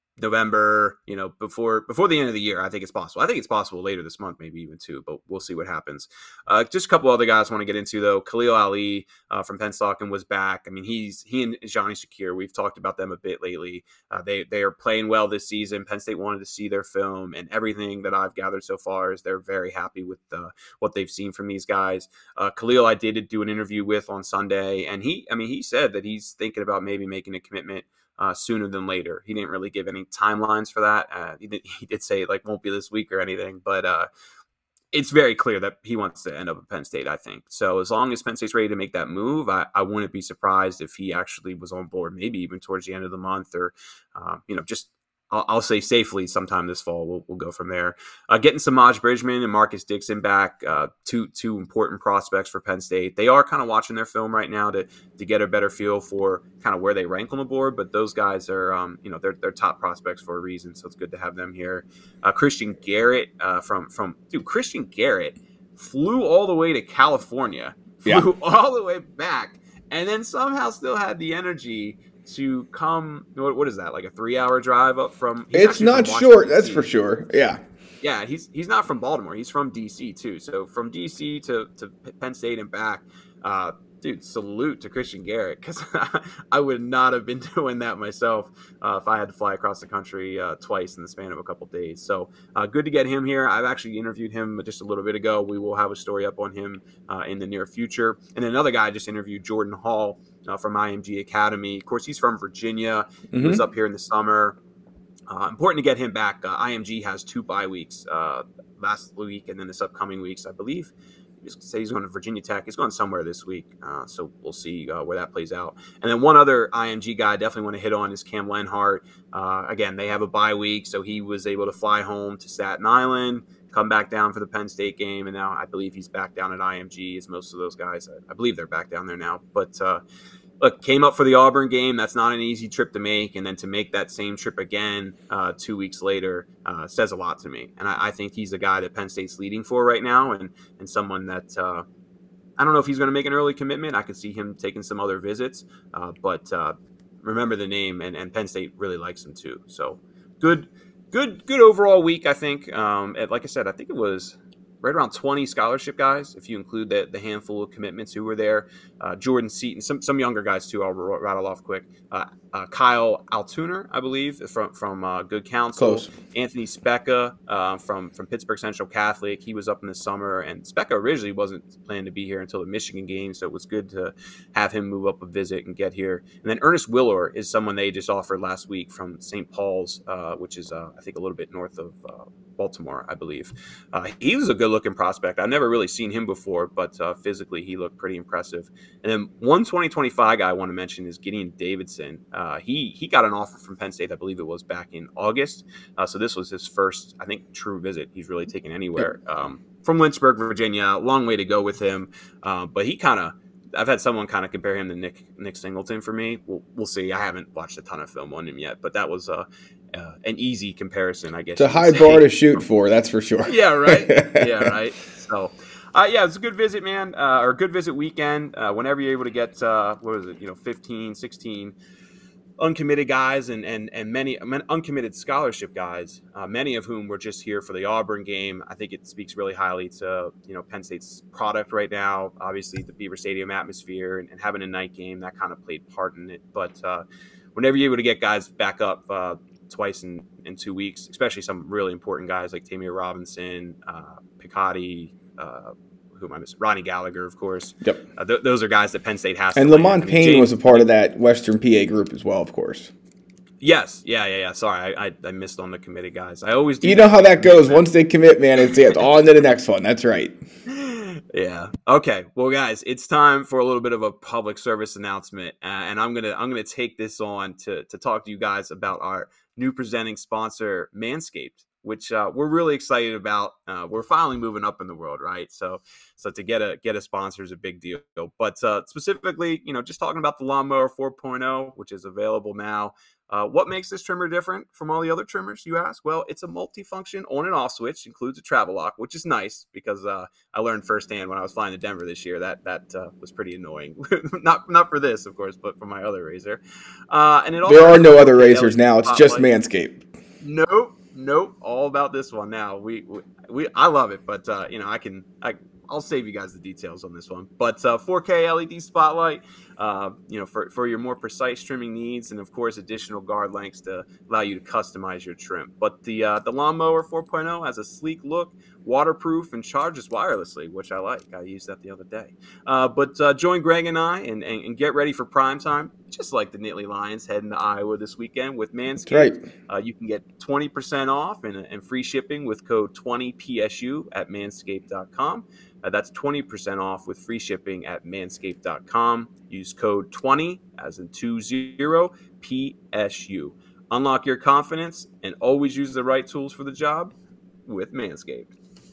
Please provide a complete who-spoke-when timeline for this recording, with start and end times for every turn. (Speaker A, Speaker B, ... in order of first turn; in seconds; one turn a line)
Speaker A: 0.2-34.1
Speaker A: 34.9-76.8
Speaker B: 75.5-77.6
Speaker A: 78.0-104.6
Speaker B: 103.3-103.6
Speaker A: 105.3-130.0
Speaker A: 130.6-141.8
Speaker A: 142.6-212.6
Speaker B: 165.8-166.1
Speaker B: 211.6-214.8
Speaker A: 213.5-221.8
Speaker A: 222.6-237.0
Speaker A: 237.6-250.8
Speaker B: 249.6-252.9
Speaker A: 253.6-257.9
Speaker B: 256.8-260.4
Speaker A: 260.7-299.5
Speaker B: 297.7-300.0
Speaker A: 300.4-347.1
Speaker B: 329.1-329.5
Speaker A: 347.7-348.5